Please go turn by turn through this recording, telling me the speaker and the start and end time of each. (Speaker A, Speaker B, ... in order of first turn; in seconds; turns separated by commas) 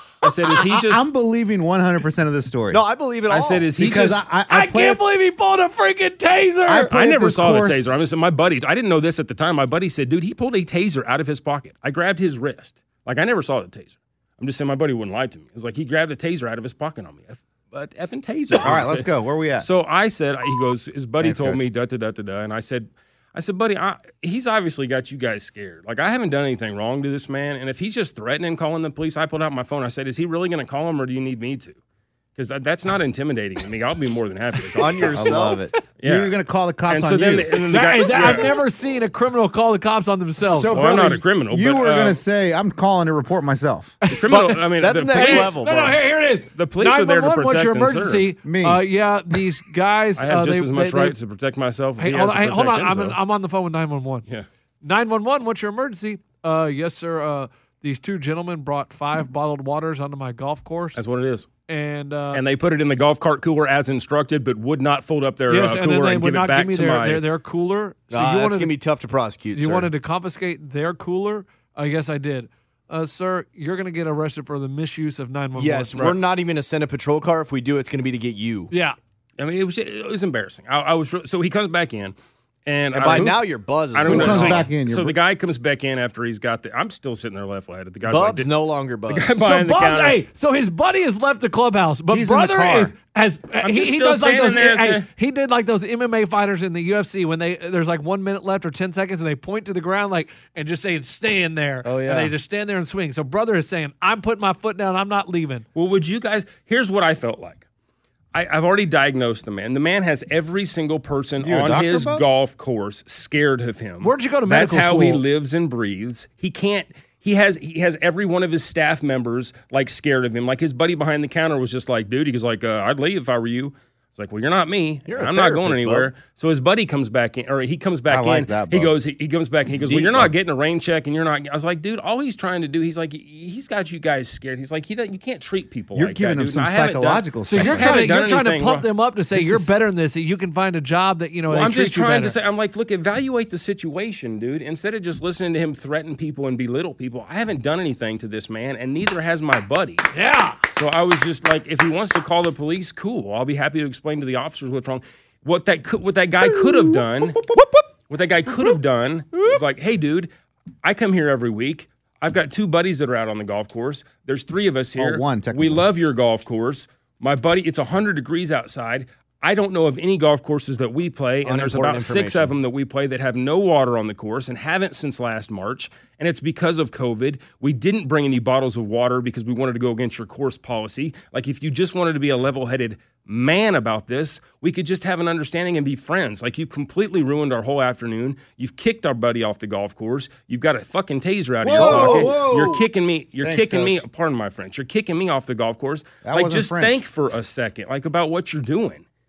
Speaker A: 0.2-1.1, Speaker B: 0.5-2.8, Speaker C: 2.7-3.7, Speaker A: 3.3-4.2, Speaker B: 3.8-5.0, Speaker D: 4.5-6.9, Speaker B: 6.7-8.0, Speaker A: 6.9-19.1, Speaker B: 18.5-19.7, Speaker A: 19.6-31.8, Speaker B: 21.2-21.6, Speaker A: 32.4-36.4, Speaker C: 34.8-35.6, Speaker B: 35.0-38.6, Speaker A: 36.9-38.5, Speaker D: 37.7-40.8, Speaker B: 40.4-44.0, Speaker A: 40.7-42.2, Speaker D: 44.0-44.5, Speaker A: 44.1-45.6, Speaker C: 44.3-46.0, Speaker D: 45.1-51.1, Speaker A: 46.5-48.3, Speaker B: 48.4-48.8, Speaker A: 50.2-53.2, Speaker D: 52.0-54.2, Speaker D: 54.8-61.0, Speaker A: 61.0-61.5, Speaker D: 61.7-62.4, Speaker A: 62.3-67.2, Speaker D: 65.5-68.8, Speaker C: 68.1-69.9, Speaker D: 69.5-76.0, Speaker C: 75.6-78.7, Speaker D: 78.7-79.0, Speaker A: 79.4-82.2, Speaker A: 82.7-83.4, Speaker C: 82.9-84.7, Speaker B: 83.1-83.4, Speaker A: 83.9-88.5, Speaker B: 84.0-85.2, Speaker C: 88.1-89.3, Speaker A: 89.1-90.2, Speaker D: 89.4-105.7, Speaker B: 92.1-93.0, Speaker A: 93.6-95.1, Speaker B: 101.8-102.3, Speaker A: 105.8-107.6, Speaker A: 108.3-138.9, Speaker B: 111.4-112.2, Speaker D: 114.0-115.2, Speaker C: 125.1-126.1, Speaker B: 128.1-128.9, Speaker C: 129.7-130.3, Speaker B: 135.9-138.1, Speaker D: 137.5-142.3, Speaker B: 139.3-139.7, Speaker A: 141.5-150.1, Speaker D: 150.1-150.6, Speaker A: 150.7-157.4, Speaker B: 156.4-157.8, Speaker A: 158.1-160.3, Speaker A: 160.8-199.0, Speaker B: 165.0-165.9, Speaker C: 171.4-172.5, Speaker B: 191.6-192.9, Speaker C: 191.8-192.4, Speaker B: 193.4-194.0, Speaker B: 196.2-197.0